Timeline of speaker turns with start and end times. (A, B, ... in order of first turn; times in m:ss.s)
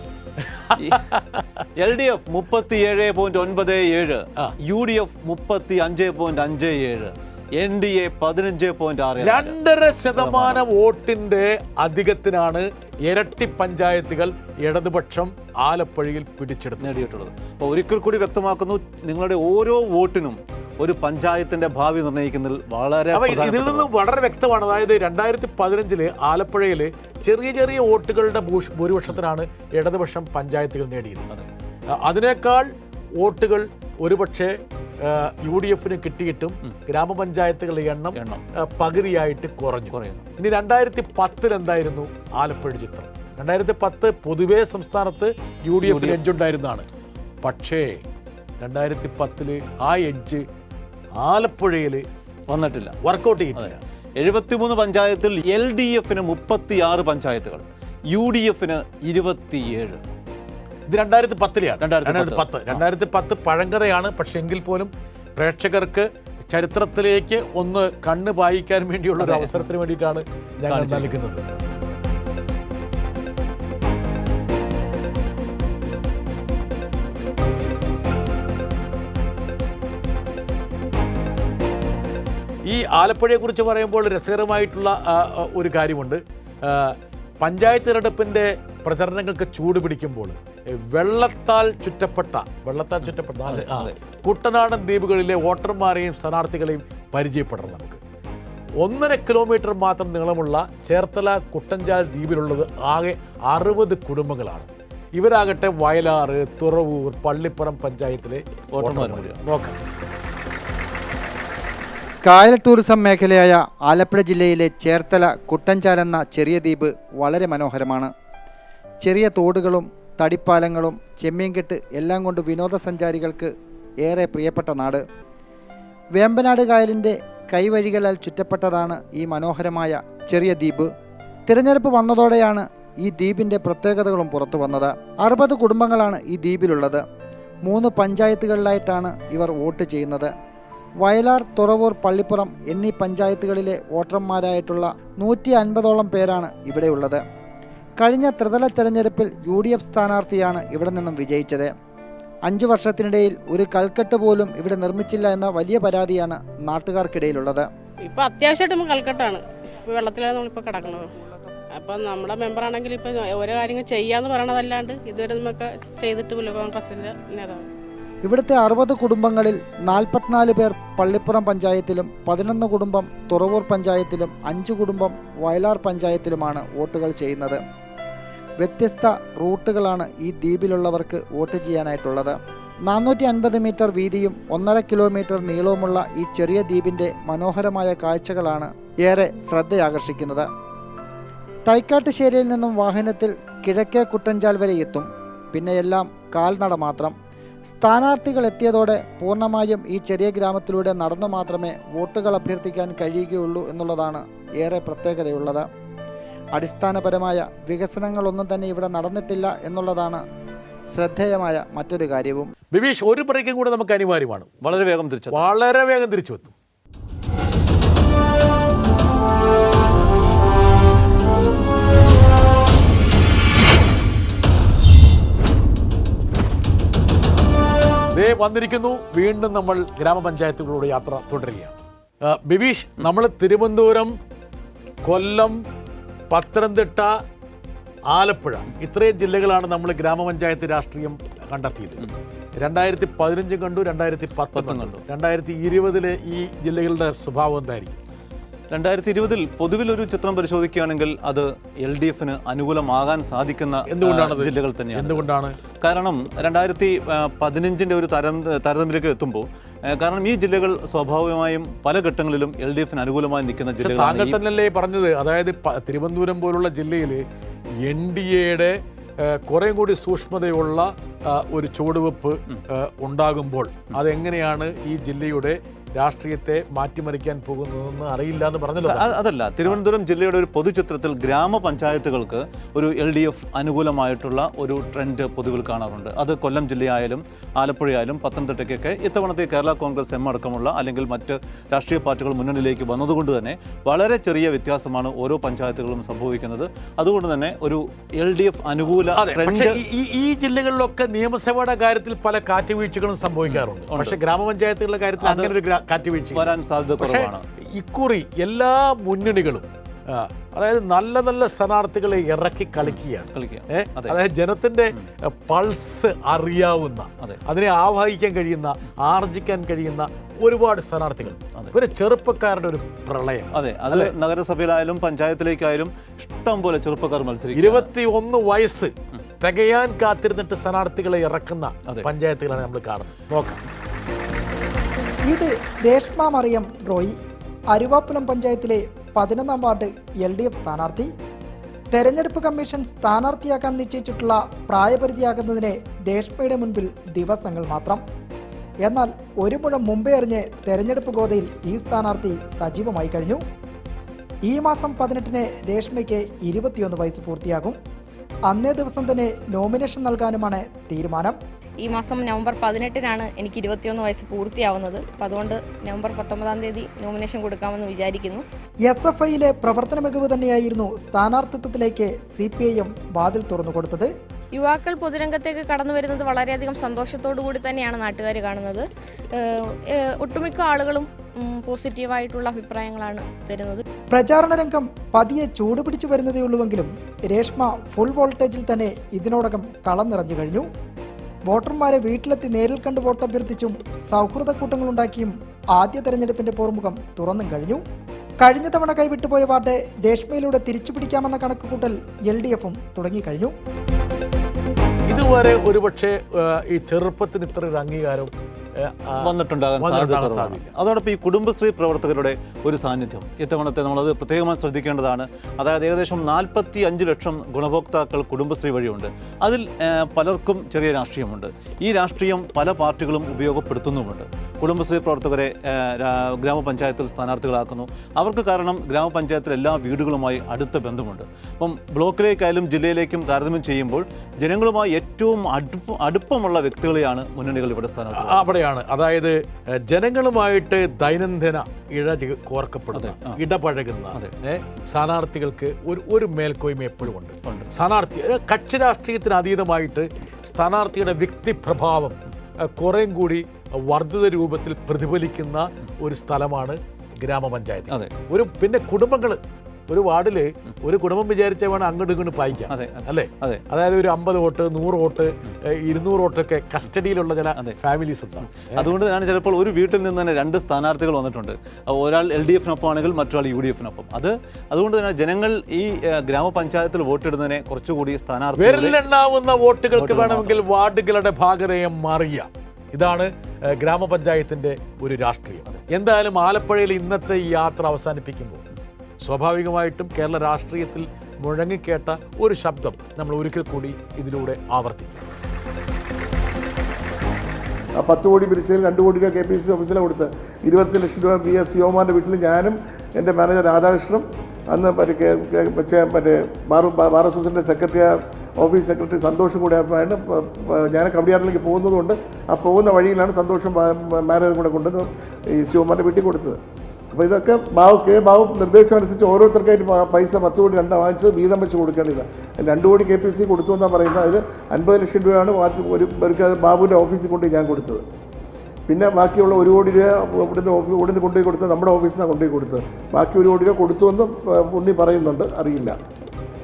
0:00.4-0:01.6 A
0:00.7-0:01.0 B
0:01.8-0:09.6 B
0:09.2-0:16.9 A
0:10.1-0:10.6 B
0:16.8-0:23.9 B
0:23.1-0:31.2 A
0:31.9-0:46.8 A
0:38.1-0:38.4 B
0:39.9-0:40.3 B
0:45.8-0:46.2 B
0:47.4-0:48.0 A
0:48.6-0:50.4 A
0:51.2-0:52.1 A
0:52.5-0:53.0 B
0:53.0-0:53.8 A
0:53.5-1:00.0 B
1:00.9-1:11.4 A
1:01.8-1:02.8 B
1:09.2-1:09.7 B
1:10.7-1:11.1 B
1:22.6-1:38.0 A
1:33.0-1:33.9 B
1:38.8-1:49.8 A
1:48.7-1:49.4 B
1:52.2-1:58.1 C
1:59.0-2:03.5 C
2:04.0-2:05.0 C
2:06.2-2:10.9 C
2:11.5-2:17.0 C
2:17.6-2:20.3 C
2:21.0-2:27.2 C
2:28.0-2:31.7 C
2:32.5-2:37.7 C
2:38.0-2:41.1 D
2:41.7-2:47.6 D
2:48.2-2:57.6 C
2:58.6-3:02.4 C
3:02.9-3:10.5 C
3:11.7-3:17.1 C
3:17.7-3:25.6 C
3:26.5-3:30.2 C
3:30.9-3:32.5 C
3:32.7-3:34.5 A
3:34.6-3:35.5 B
3:35.3-3:36.5 A
3:48.1-3:54.2 A
3:55.0-3:55.6 A
3:56.3-3:57.2 A
3:58.1-4:02.0 A
4:02.6-4:08.0 A
4:04.5-4:05.0 B
4:08.7-4:15.3 B
4:13.9-4:15.6 A
4:15.8-4:24.4 B
4:23.8-4:27.2 A
4:27.8-4:39.2 A
4:38.8-4:59.8 B
4:59.1-5:24.1 A
5:03.4-5:04.2 B
5:05.2-5:05.5 B
5:06.3-5:07.4 B
5:12.8-5:14.2 B
5:21.2-5:21.7 B
5:23.5-5:27.9 B
5:27.5-5:33.6 A
5:35.3-5:37.2 E
5:37.7-5:41.1 E
5:41.9-5:48.0 E
5:48.8-5:53.4 E
5:54.4-5:57.8 E
5:58.5-6:01.4 E
6:01.8-6:08.4 F
6:08.8-6:14.1 E
6:14.5-6:23.8 F
6:24.1-6:30.7 E
6:31.4-6:37.8 E
6:38.4-6:43.5 E
6:45.1-6:50.7 A
6:49.2-7:18.5 B
7:18.1-7:19.4 A
7:19.9-7:48.9 A
7:22.9-7:23.4 B
7:27.0-7:27.7 B
7:42.6-7:43.6 B
7:48.6-7:59.0 B
7:58.6-8:08.6 A
7:59.9-8:00.6 B
8:09.2-8:15.2 A
8:18.0-8:36.6 G
8:37.1-8:48.0 G
8:48.9-8:56.0 G